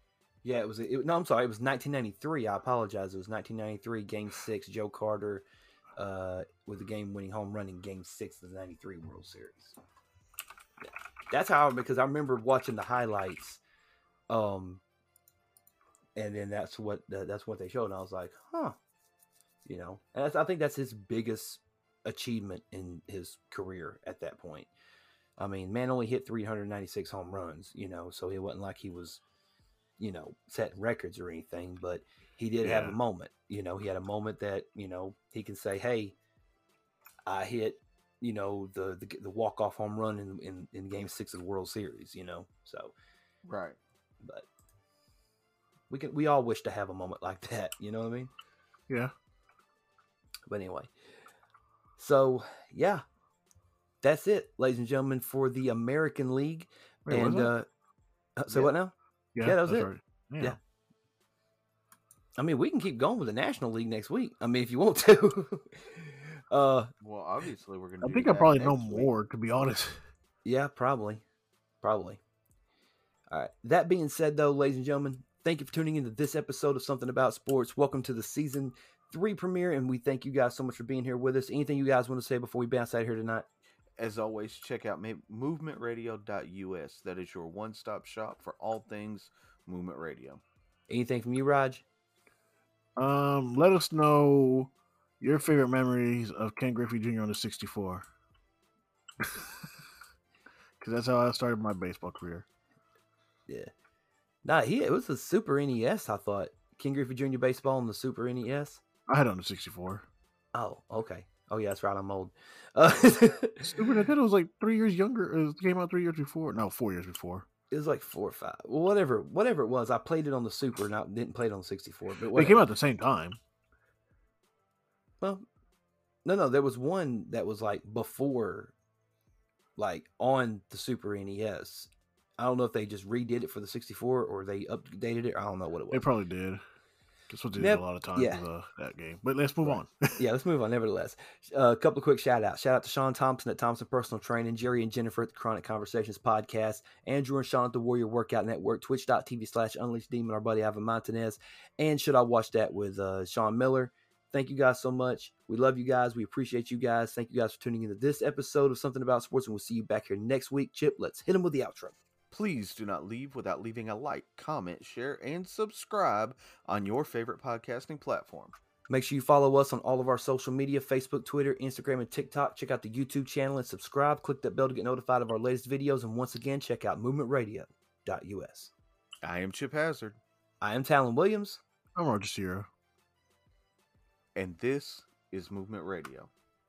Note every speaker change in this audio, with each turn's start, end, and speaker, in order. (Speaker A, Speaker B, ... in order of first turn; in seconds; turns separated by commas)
Speaker A: 0.4-5.5, Speaker A: 6.0-9.8, Speaker A: 11.3-13.6, Speaker A: 14.3-14.8, Speaker A: 16.1-18.8, Speaker A: 19.6-24.7, Speaker A: 25.4-29.2, Speaker A: 30.0-36.1, Speaker B: 32.6-33.0, Speaker A: 37.3-42.9, Speaker C: 43.4-43.8, Speaker A: 45.9-48.3, Speaker A: 50.5-50.9, Speaker A: 52.0-53.0, Speaker A: 54.0-57.7, Speaker B: 57.0-57.5, Speaker A: 58.4-59.9, Speaker B: 59.3-60.6, Speaker A: 62.4-66.9, Speaker C: 67.0-69.1, Speaker B: 68.0-70.0, Speaker A: 70.4-71.2, Speaker A: 71.8-72.2, Speaker A: 73.3-83.5, Speaker C: 84.0-90.4, Speaker A: 90.9-91.8, Speaker B: 93.0-98.1, Speaker B: 99.2-99.7, Speaker B: 100.8-102.4, Speaker A: 104.4-108.8, Speaker B: 109.1-110.0, Speaker A: 110.5-114.0, Speaker B: 113.6-117.5, Speaker A: 117.7-122.6, Speaker B: 122.3-123.4, Speaker A: 126.2-128.7, Speaker A: 129.8-136.0, Speaker B: 135.9-136.6, Speaker B: 137.3-140.1, Speaker A: 137.6-138.4, Speaker A: 140.2-161.9, Speaker C: 162.3-168.5, Speaker A: 168.9-178.7, Speaker C: 179.2-180.2, Speaker A: 180.6-181.6, Speaker B: 181.9-182.7, Speaker C: 184.3-186.3